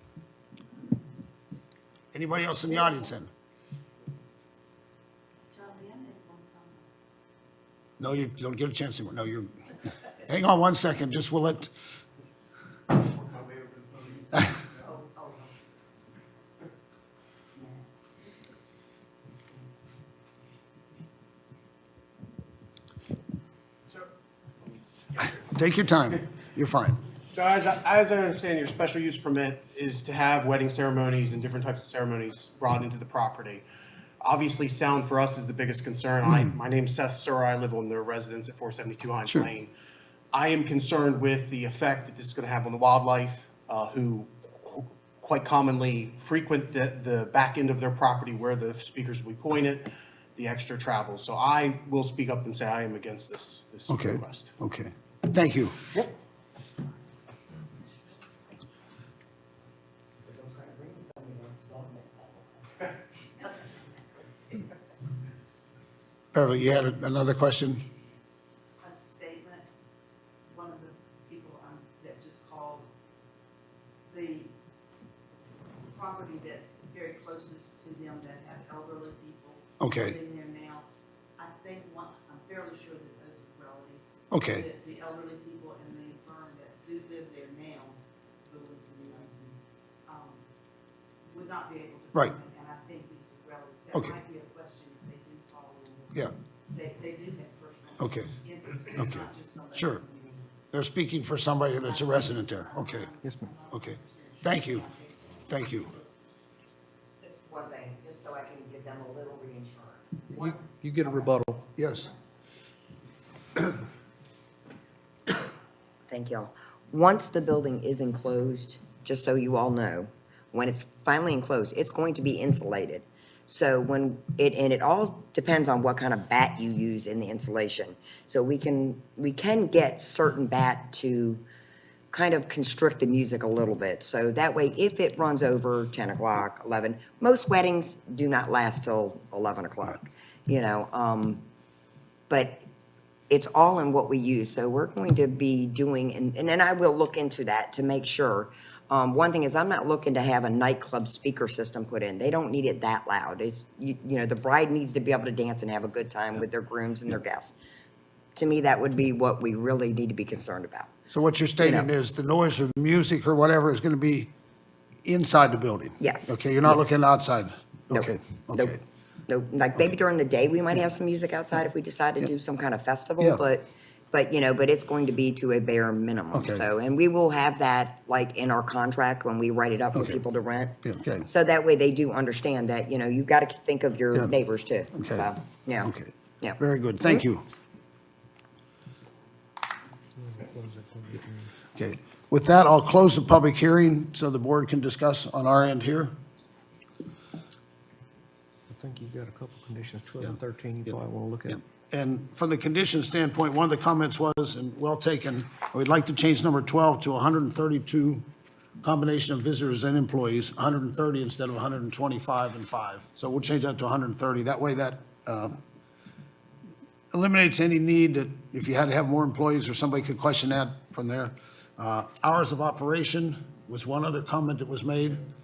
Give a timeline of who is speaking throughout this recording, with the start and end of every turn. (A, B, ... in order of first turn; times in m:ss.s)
0:02.1-0:03.3 A
0:05.5-0:06.9 B
0:08.0-0:09.5 A
0:10.3-0:11.7 A
0:13.0-0:14.8 C
0:14.8-0:15.6 B
0:17.5-0:17.9 B
0:25.4-0:27.0 A
0:27.3-0:33.6 C
0:34.2-0:39.7 C
0:40.3-0:54.5 C
0:53.9-0:55.9 A
1:00.2-1:02.9 D
1:06.3-1:07.8 A
1:08.8-1:09.7 B
1:10.5-1:12.9 B
1:14.1-1:14.5 B
1:15.9-1:30.4 B
1:19.8-1:20.2 A
1:24.3-1:24.7 A
1:31.2-1:40.5 B
1:38.0-1:38.3 A
1:38.9-1:40.0 A
1:40.7-1:43.1 A
1:41.8-1:46.0 B
1:43.2-1:43.5 E
1:43.7-1:44.9 A
1:45.5-1:45.9 A
1:47.2-1:51.3 D
1:50.4-1:51.6 E
1:51.8-1:52.1 A
1:56.1-2:11.4 D
2:12.1-2:21.4 D
2:22.3-2:22.6 D
2:23.3-2:37.6 D
2:38.4-2:40.9 D
2:41.1-2:44.3 A
2:41.6-2:41.9 D
2:45.0-2:48.8 A
2:46.0-2:46.8 D
2:47.9-2:48.8 D
2:49.3-3:07.2 D
2:56.3-2:56.6 A
3:00.0-3:00.2 A
3:00.8-3:01.3 A
3:05.0-3:05.3 A
3:05.8-3:07.4 A
3:10.2-3:11.5 E
3:11.8-3:16.1 A
3:18.7-3:21.6 E
3:21.5-3:28.3 A
3:28.8-3:35.6 A
3:37.1-3:45.2 A